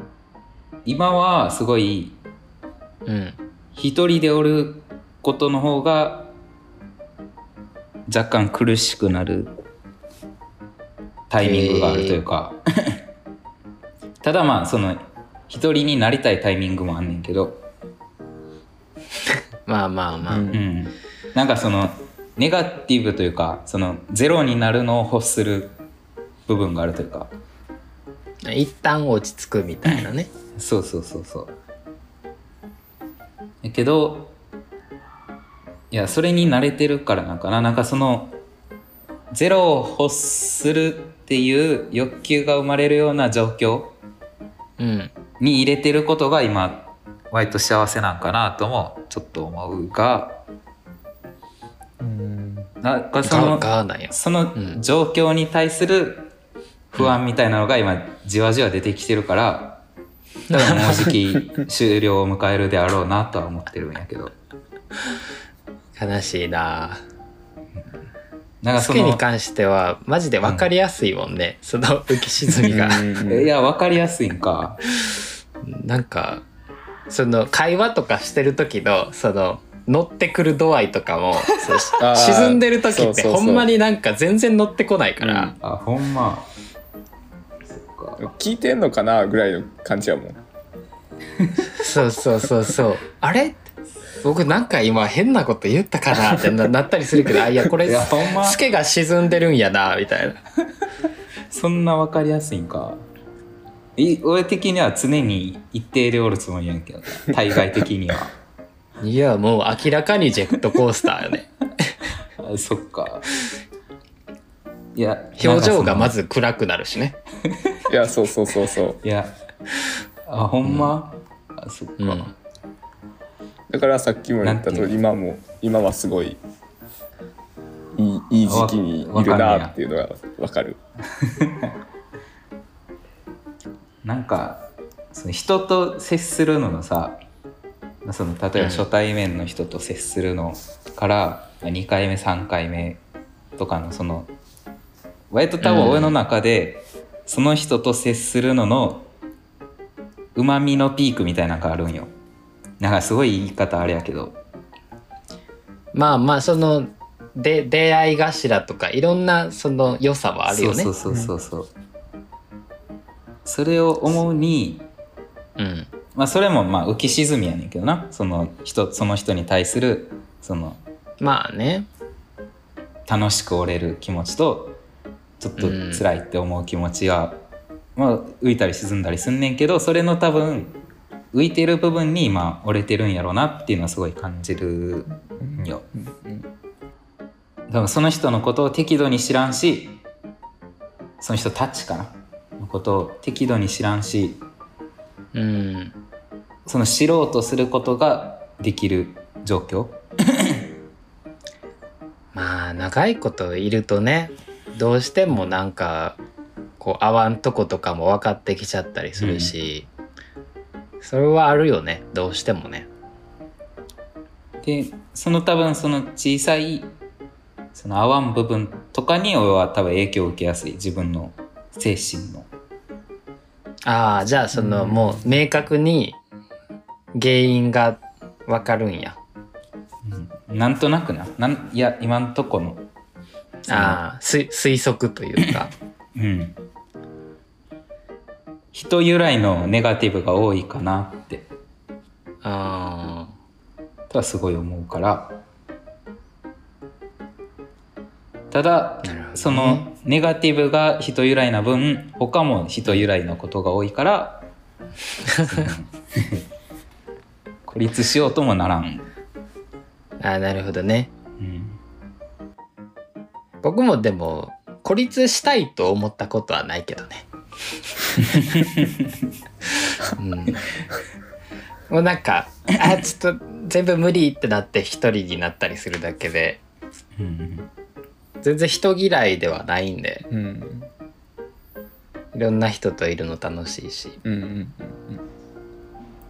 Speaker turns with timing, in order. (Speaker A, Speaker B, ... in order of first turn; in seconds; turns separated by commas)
Speaker A: 0.8-2.2, Speaker B: 3.1-3.4, Speaker A: 3.8-6.3, Speaker A: 8.1-9.5, Speaker A: 11.3-13.0, Speaker B: 11.4-12.2, Speaker A: 14.2-17.7, Speaker B: 19.7-20.5, Speaker C: 20.3-20.6, Speaker A: 20.5-25.8, Speaker A: 26.5-27.3, Speaker B: 28.4-30.3, Speaker A: 30.6-31.6, Speaker A: 33.6-34.4, Speaker A: 35.9-38.4, Speaker A: 39.3-44.0, Speaker B: 44.8-45.1, Speaker A: 45.4-50.5, Speaker C: 52.0-52.7, Speaker A: 52.8-56.3, Speaker B: 53.2-54.8, Speaker A: 56.9-59.8, Speaker B: 60.5-61.0, Speaker A: 60.5-64.4, Speaker B: 66.0-67.0, Speaker A: 68.6-69.2, Speaker B: 68.8-73.0, Speaker C: 72.7-73.5, Speaker A: 73.3-74.8, Speaker B: 75.6-76.5, Speaker B: 77.1-85.5, Speaker C: 82.0-83.7, Speaker C: 85.2-85.6, Speaker A: 85.6-86.5, Speaker A: 87.7-88.3, Speaker C: 88.2-90.4, Speaker B: 91.8-93.7, Speaker B: 94.2-100.4, Speaker A: 97.8-98.6, Speaker A: 101.5-103.0, Speaker A: 104.0-108.3, Speaker B: 109.0-111.9, Speaker A: 112.4-113.3, Speaker A: 114.9-116.2, Speaker B: 115.4-117.2, Speaker A: 117.5-117.8, Speaker C: 117.9-119.0, Speaker A: 119.0-119.4, Speaker A: 120.3-122.3, Speaker B: 120.7-120.9, Speaker B: 122.0-122.3, Speaker C: 123.7-126.4, Speaker A: 124.4-124.9, Speaker C: 127.9-130.8, Speaker A: 128.4-129.8, Speaker A: 131.2-131.7, Speaker A: 134.0-137.2, Speaker A: 138.0-143.0, Speaker B: 138.6-138.9, Speaker A: 143.6-144.3, Speaker A: 145.3-149.1, Speaker B: 145.6-146.2, Speaker A: 150.3-152.1, Speaker A: 152.8-154.4, Speaker B: 155.9-160.9, Speaker A: 160.5-161.7, Speaker C: 161.1-161.3, Speaker A: 163.4-164.9, Speaker B: 165.6-165.9, Speaker A: 166.2-170.8, Speaker B: 171.2-171.9, Speaker A: 173.1-174.8, Speaker A: 175.4-177.4, Speaker B: 175.6-176.1, Speaker A: 178.0-180.8, Speaker A: 181.3-185.8, Speaker C: 185.4-186.5, Speaker A: 187.7-190.0, Speaker A: 191.2-194.4, Speaker B: 195.3-196.0, Speaker A: 196.7-200.6, Speaker B: 202.3-206.2, Speaker B: 206.8-209.9, Speaker A: 209.2-209.5, Speaker B: 211.0-212.9, Speaker A: 214.6-216.9, Speaker A: 217.8-222.5, Speaker B: 223.9-226.2, Speaker A: 224.5-225.4, Speaker B: 227.1-229.2, Speaker A: 230.0-232.8, Speaker B: 233.7-235.7, Speaker A: 233.7-234.0, Speaker A: 236.2-236.6, Speaker A: 238.7-241.5, Speaker B: 242.4-243.3, Speaker A: 244.1-245.4, Speaker A: 248.5-254.5, Speaker B: 249.0-249.9, Speaker B: 255.3-255.7, Speaker A: 255.4-256.4, Speaker A: 257.7-259.1, Speaker B: 260.2-261.1, Speaker A: 261.4-261.8, Speaker B: 263.6-267.3, Speaker A: 268.2-269.1, Speaker B: 270.2-270.6, Speaker B: 271.9-276.6, Speaker A: 277.2-277.7, Speaker B: 278.4-280.2, Speaker C: 280.3-280.9, Speaker B: 282.3-284.2, Speaker C: 284.2-285.2